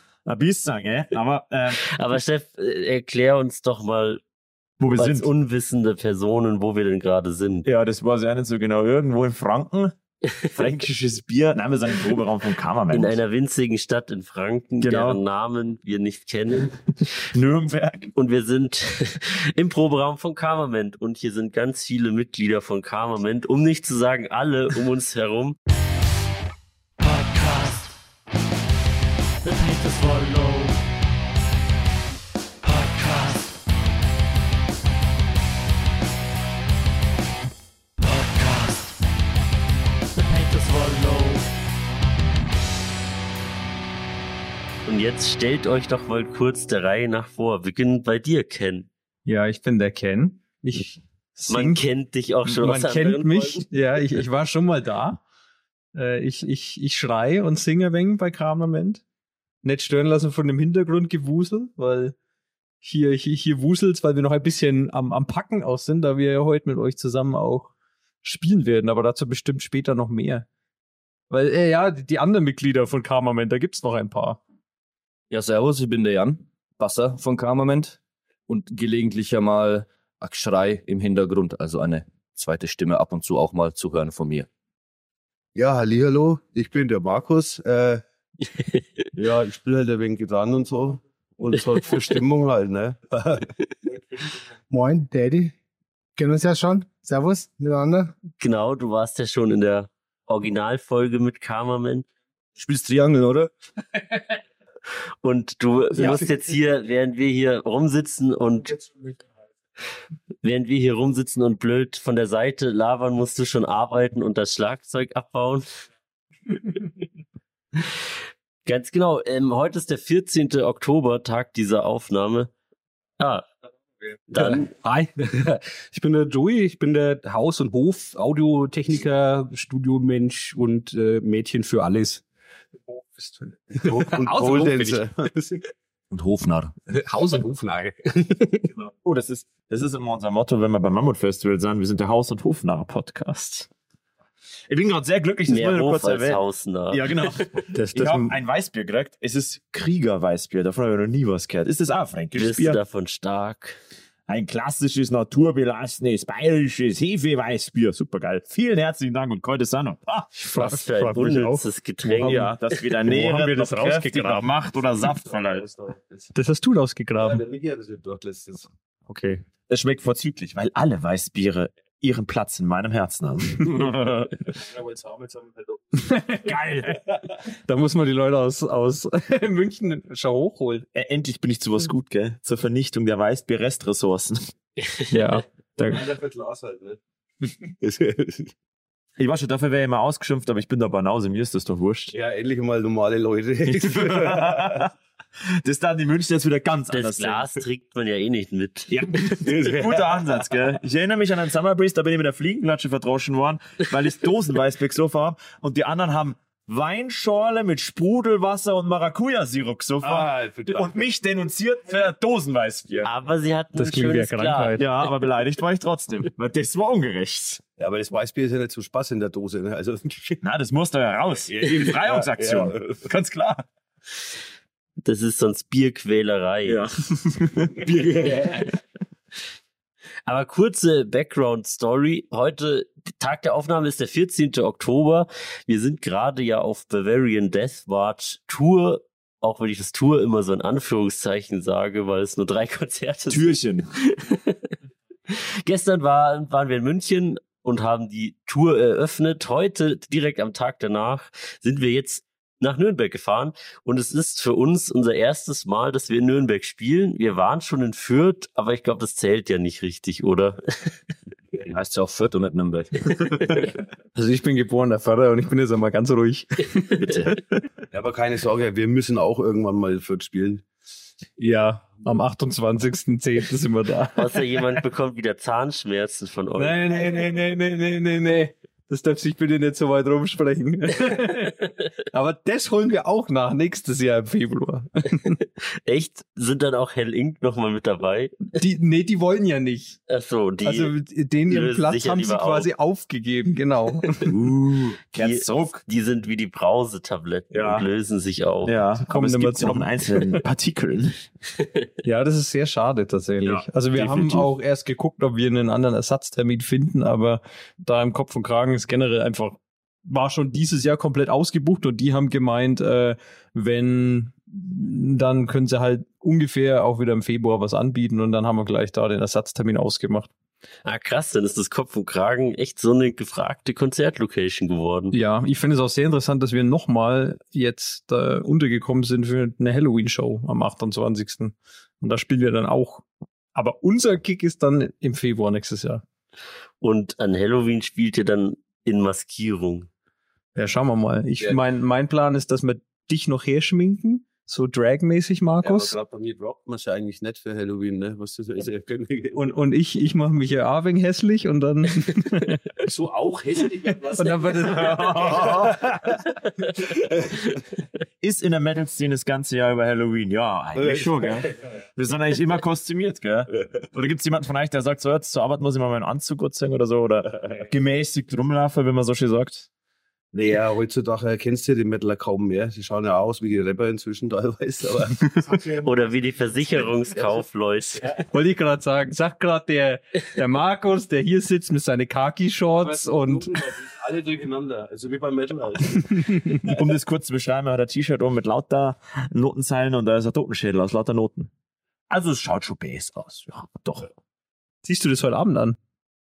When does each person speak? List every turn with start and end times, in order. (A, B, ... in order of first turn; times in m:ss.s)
0:00.2-0:01.8 A
0:01.8-0:04.2 B
0:04.8-0:05.3 A
0:05.0-0:07.7 B
0:07.6-0:09.9 A
0:10.5-0:13.2 A
0:12.9-0:16.8 B
0:14.8-0:15.2 A
0:17.3-0:18.1 A
0:18.2-0:25.6 B
0:44.8-0:48.9 B
0:49.3-0:51.8 C
0:51.5-0:53.7 B
0:52.5-0:55.2 C
0:55.9-0:59.0 C
0:59.6-1:02.2 C
1:02.8-1:07.7 C
1:08.2-1:10.5 C
1:11.3-1:14.4 C
1:15.3-1:24.5 D
1:25.5-1:28.0 E
1:29.2-1:33.5 E
1:34.7-1:35.5 F
1:36.2-1:38.2 F
1:38.4-1:42.1 B
1:42.6-1:43.5 D
1:45.2-1:48.8 B
1:50.4-1:55.7 B
1:58.7-2:02.5 B
2:03.2-2:03.4 B
2:04.3-2:04.7 B
2:04.3-2:12.2 G
2:13.2-2:15.1 G
2:13.8-2:15.6 E
2:16.1-2:16.7 D
2:16.9-2:18.7 G
2:19.0-2:23.7 A
2:24.7-2:32.8 A
2:25.5-2:27.6 B
2:27.7-2:28.3 C
2:32.3-2:33.8 B
2:34.3-2:40.3 A
2:40.3-2:44.4 C
2:40.6-2:42.5 B
2:42.2-2:45.7 A
2:45.2-2:46.3 E
2:46.3-2:47.4 C
2:47.2-2:48.7 E
2:49.1-2:49.4 C
2:49.7-2:54.4 A
2:54.6-2:56.0 E
2:56.0-2:57.0 C
2:57.7-3:00.8 C
3:00.9-3:04.5 A
3:04.9-3:05.2 B
3:05.1-3:06.0 C
3:05.8-3:07.0 E
3:07.8-3:08.5 E
3:09.2-3:12.1 A
3:12.1-3:14.9 E
3:13.7-3:14.9 A
3:15.6-3:17.6 A
3:16.9-3:19.3 B
3:18.9-3:33.1 A
3:19.4-3:20.3 E
3:30.0-3:31.1 E
3:33.0-3:34.8 B
3:33.8-3:34.8 C
3:34.8-3:37.6 A
3:37.8-3:40.4 E
3:40.4-3:43.6 A
3:41.5-3:43.0 E
3:45.0-3:46.8 B
3:46.7-3:48.3 A
3:47.8-3:48.7 E
3:50.2-4:03.5 B
4:03.3-4:03.9 A
4:04.0-4:04.7 B
4:05.3-4:21.0 B
4:21.6-4:23.2 D
4:24.1-4:27.4 C
4:27.9-4:30.6 E
4:31.4-4:34.6 C
4:34.2-4:36.8 B
4:36.6-4:45.4 C
4:45.8-4:48.5 B
4:48.5-4:50.0 C
4:50.1-4:50.9 B
4:50.6-4:54.3 C
4:51.5-4:52.7 B
4:54.2-4:55.8 A
4:55.2-4:58.8 B
4:57.5-4:57.9 A
4:58.6-5:01.2 A
4:59.0-5:00.4 C
5:02.0-5:20.3 C
5:03.4-5:04.5 A
5:20.8-5:25.2 B
5:25.1-5:36.0 C
5:36.8-5:39.9 B
5:40.6-5:45.9 C
5:45.6-5:49.4 E
5:49.3-5:52.7 C
5:52.8-5:56.1 E
5:54.1-5:55.5 C
5:54.6-5:56.1 A
5:58.2-6:09.7 A
6:00.8-6:01.2 E
6:10.3-6:15.9 E
6:15.8-6:18.2 B
6:18.2-6:23.5 C
6:22.7-6:26.8 E
6:26.6-6:31.5 A
6:32.1-6:34.1 A
6:34.8-6:35.8 C